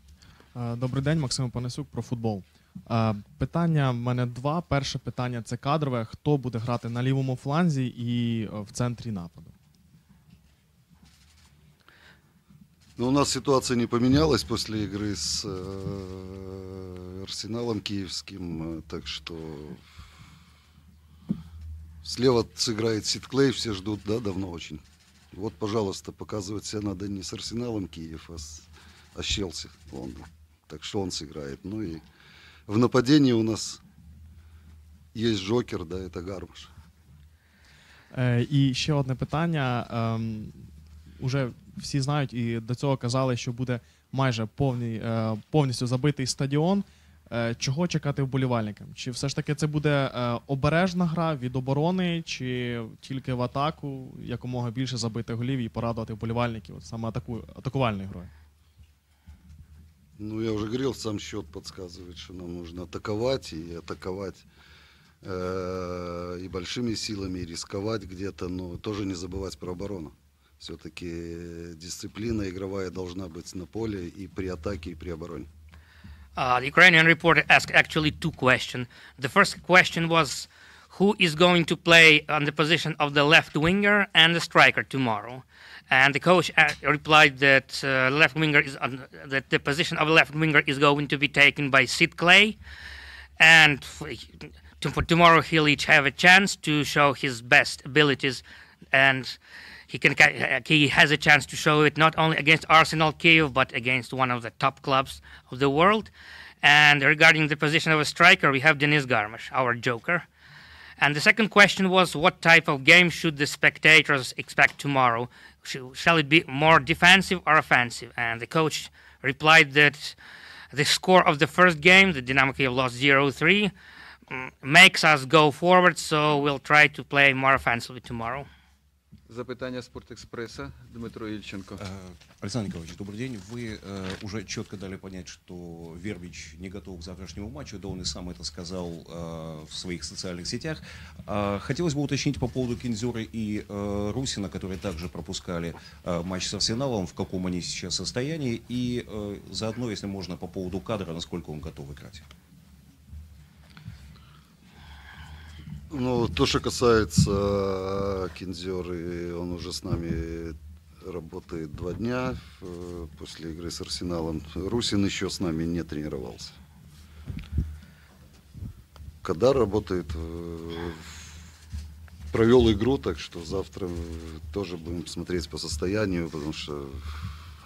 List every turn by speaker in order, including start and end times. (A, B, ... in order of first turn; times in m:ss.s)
0:00.5-0:09.5 A
0:13.0-0:19.8 B
0:22.0-0:24.8 B
0:25.3-0:32.0 B
0:32.7-0:33.8 B
0:35.1-0:36.7 B
0:38.1-0:40.6 A
0:41.2-0:58.3 A
1:00.2-1:04.4 B
1:05.2-1:15.5 B
1:16.4-1:32.6 C
1:33.4-1:38.4 C
1:38.9-1:39.4 C
1:39.9-1:46.1 C
1:46.6-1:50.2 C
1:51.0-2:00.2 C
2:00.7-2:03.7 C
2:04.3-2:08.5 C
2:09.3-2:11.8 D
2:11.8-2:32.3 E
2:35.9-2:46.6 B
2:49.2-2:51.2 B
2:52.3-2:57.3 B